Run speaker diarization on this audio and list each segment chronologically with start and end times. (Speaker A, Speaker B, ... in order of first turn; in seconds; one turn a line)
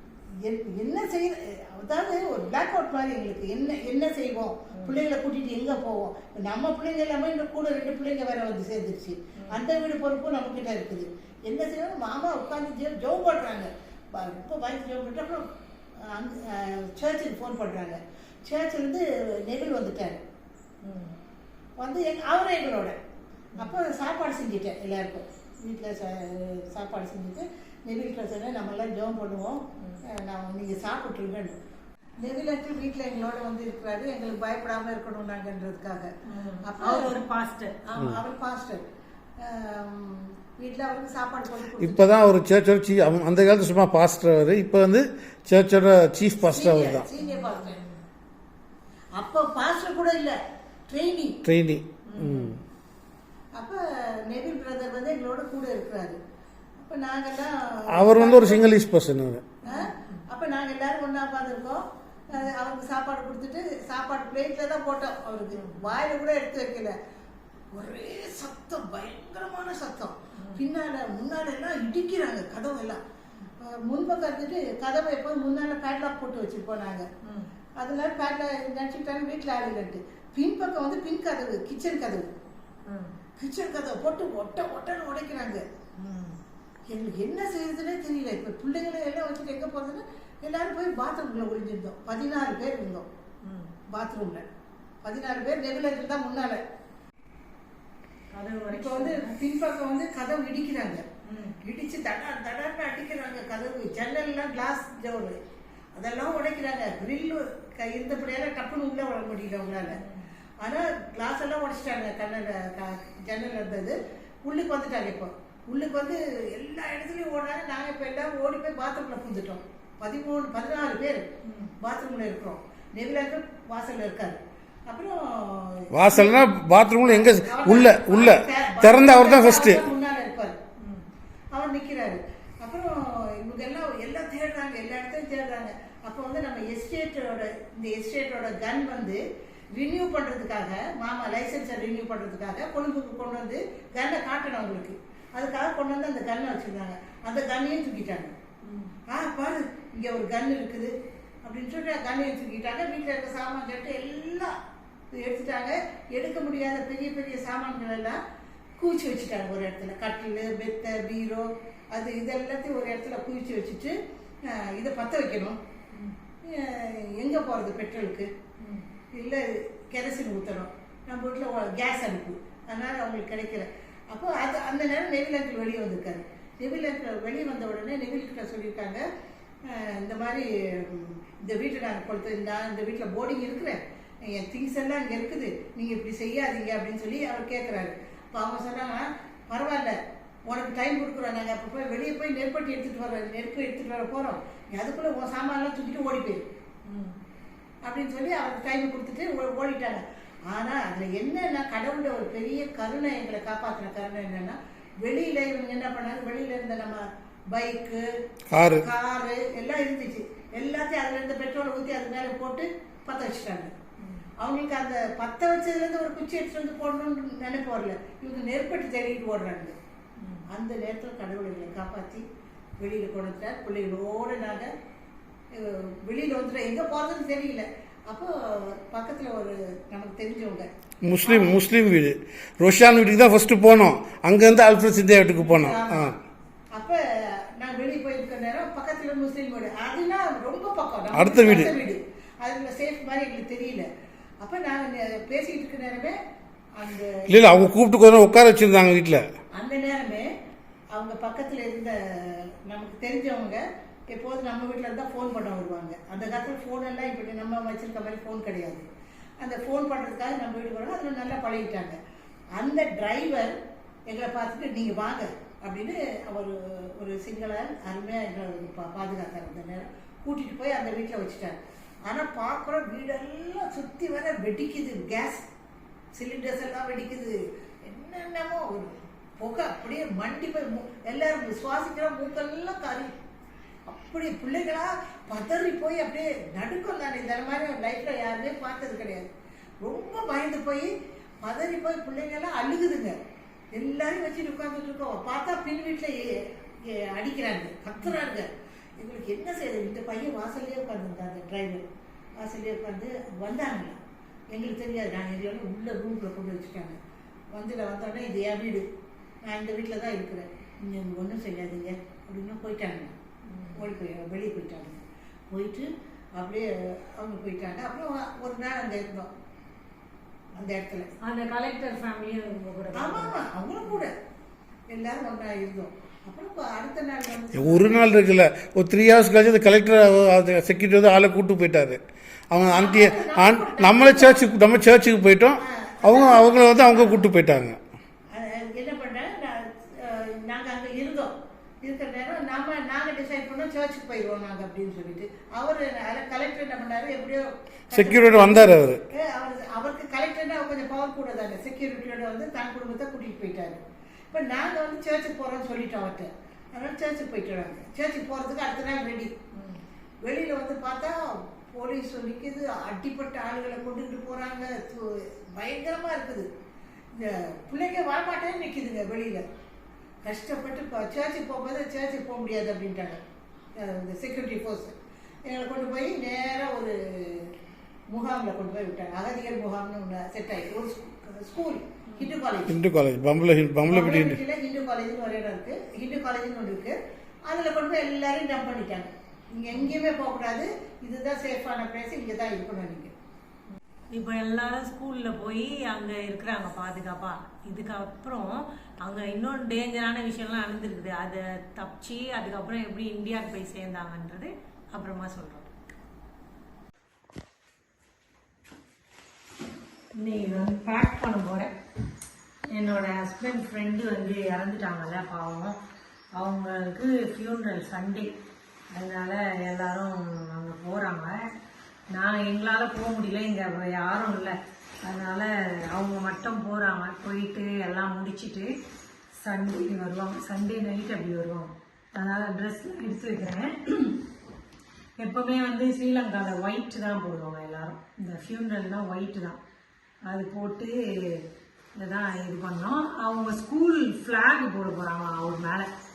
Speaker A: 0.4-15.5
Speaker B: 4.7-5.0
Speaker B: 9.4-9.6
Speaker A: 16.0-20.2
Speaker B: 20.8-21.2
Speaker A: 21.8-23.0
Speaker A: 23.6-31.6
Speaker A: 32.2-37.2
Speaker B: 36.3-38.2
Speaker A: 38.0-38.9
Speaker A: 39.4-42.1
Speaker C: 41.8-47.1
Speaker A: 46.5-47.8
Speaker B: 47.2-48.0
Speaker A: 49.1-50.4
Speaker A: 50.9-51.4
Speaker C: 51.5-52.6
Speaker B: 52.1-52.6
Speaker A: 53.5-56.2
Speaker A: 56.8-58.8
Speaker C: 57.9-59.5
Speaker B: 59.6-60.2
Speaker A: 59.6-67.0
Speaker B: 65.5-66.0
Speaker A: 67.7-73.0
Speaker B: 70.4-70.6
Speaker A: 73.6-77.1
Speaker B: 77.2-77.5
Speaker A: 77.8-82.3
Speaker B: 82.9-83.2
Speaker A: 83.4-85.7
Speaker B: 86.0-86.4
Speaker A: 86.9-93.0
Speaker B: 93.4-93.7
Speaker A: 93.9-94.5
Speaker A: 95.0-96.6
Speaker B: 98.3-99.4
Speaker A: 98.7-101.0
Speaker B: 101.2-101.6
Speaker A: 101.6-105.4
Speaker A: 106.0-110.0
Speaker B: 109.9-110.3
Speaker A: 110.6-126.4
Speaker B: 121.4-121.8
Speaker C: 125.9-129.9
Speaker A: 127.3-130.6
Speaker B: 130.8-131.1
Speaker A: 131.5-148.4
Speaker B: 148.6-148.9
Speaker A: 149.1-154.6
Speaker A: 155.1-158.2
Speaker A: 158.8-165.6
Speaker A: 166.4-168.3
Speaker B: 168.6-168.9
Speaker A: 169.1-179.0
Speaker A: 179.6-196.4
Speaker B: 196.9-197.2
Speaker A: 197.8-208.1
Speaker C: 208.5-208.9
Speaker A: 208.7-213.8
Speaker B: 214.0-214.3
Speaker A: 214.4-219.8
Speaker B: 220.2-220.5
Speaker A: 220.5-222.2
Speaker A: 222.8-224.7
Speaker A: 225.5-230.7
Speaker C: 231.0-236.2
Speaker A: 231.2-231.6
Speaker A: 235.3-236.2
Speaker A: 236.7-243.9
Speaker C: 241.1-241.7
Speaker A: 244.4-246.2
Speaker A: 246.8-247.6
Speaker C: 247.3-249.2
Speaker A: 249.6-250.3
Speaker A: 250.9-258.9
Speaker A: 259.4-262.0
Speaker A: 262.6-263.6
Speaker A: 264.1-275.5
Speaker A: 276.1-283.1
Speaker A: 283.9-289.3
Speaker A: 289.8-293.2
Speaker A: 293.7-301.9
Speaker A: 302.4-304.0
Speaker A: 304.5-307.0
Speaker A: 307.5-308.9
Speaker A: 309.4-313.1
Speaker B: 313.5-313.9
Speaker A: 313.8-319.3
Speaker A: 320.5-321.1
Speaker B: 321.2-324.0
Speaker A: 322.9-324.1
Speaker A: 324.9-328.1
Speaker C: 327.5-337.8
Speaker A: 332.7-334.4
Speaker A: 335.6-337.2
Speaker A: 338.3-359.3
Speaker C: 347.9-349.0
Speaker B: 359.5-359.8
Speaker A: 360.2-366.5
Speaker A: 367.1-369.5
Speaker A: 370.2-373.2
Speaker A: 373.8-374.9
Speaker A: 375.5-377.5
Speaker A: 378.1-382.8
Speaker B: 382.1-382.4
Speaker C: 382.7-384.4
Speaker A: 383.9-387.0
Speaker A: 387.5-393.1
Speaker B: 394.1-405.7
Speaker B: 410.2-411.7
Speaker B: 412.7-415.8
Speaker B: 416.4-418.3
Speaker B: 418.9-421.5
Speaker B: 422.1-428.7
Speaker B: 429.4-434.2
Speaker B: 435.2-439.6
Speaker B: 440.3-441.4
Speaker B: 442.0-445.9